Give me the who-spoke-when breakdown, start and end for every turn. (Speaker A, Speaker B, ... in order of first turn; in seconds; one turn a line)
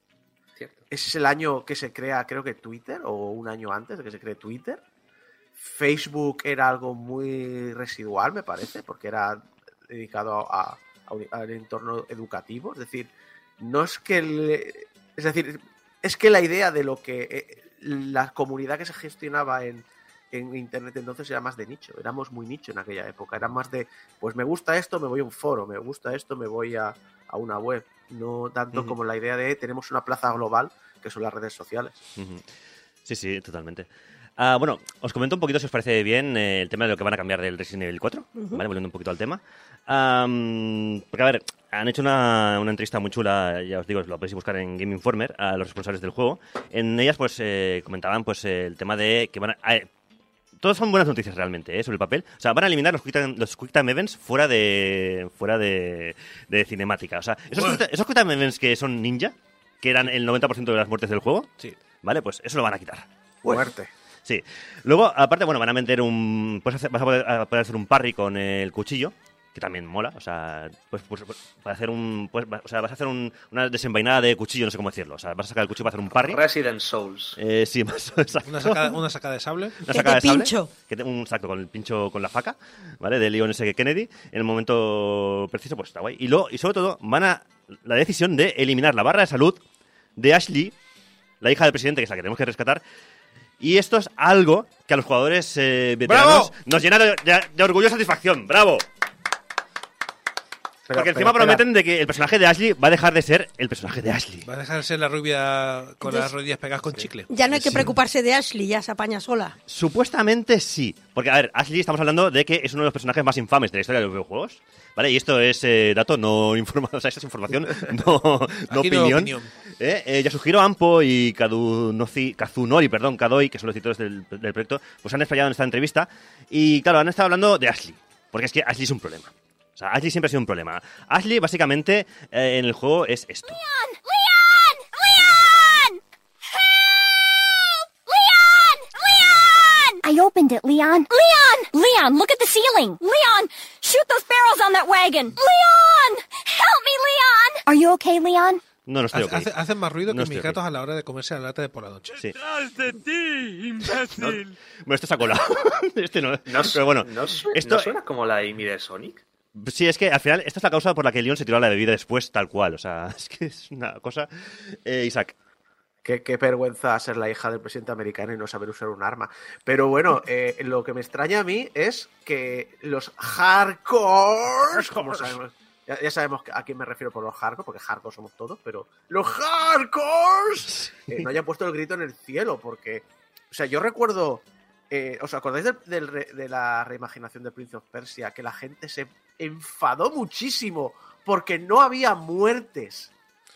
Speaker A: 0.6-0.8
Speaker B: 0.9-4.8
Speaker B: 5.6-32.0
Speaker C: 32.2-32.4
Speaker C: 33.0-49.9
Speaker D: 38.4-38.6
Speaker C: 50.6-63.7
Speaker B: 63.4-63.9
Speaker C: 64.2-76.4
Speaker A: 76.2-77.4
Speaker C: 77.4-79.0
Speaker E: 78.4-79.8
Speaker C: 79.8-89.6
Speaker D: 79.9-80.7
Speaker C: 90.2-90.7
Speaker C: 91.4-92.8
Speaker C: 93.6-98.8
Speaker E: 96.0-96.5
Speaker B: 100.9-101.6
Speaker C: 100.9-104.5
Speaker E: 104.4-107.8
Speaker D: 106.0-106.3
Speaker D: 107.3-109.6
Speaker C: 109.7-133.6
Speaker E: 118.7-119.5
Speaker F: 133.5-136.0
Speaker F: 136.5-137.4
Speaker F: 138.1-148.6
Speaker C: 148.8-149.5
Speaker E: 149.1-152.3
Speaker C: 150.1-150.6
Speaker E: 152.8-154.0
Speaker C: 153.9-158.0
Speaker A: 156.5-159.2
Speaker C: 159.5-165.3
Speaker B: 166.0-193.1
Speaker C: 175.0-175.3
Speaker C: 180.7-181.3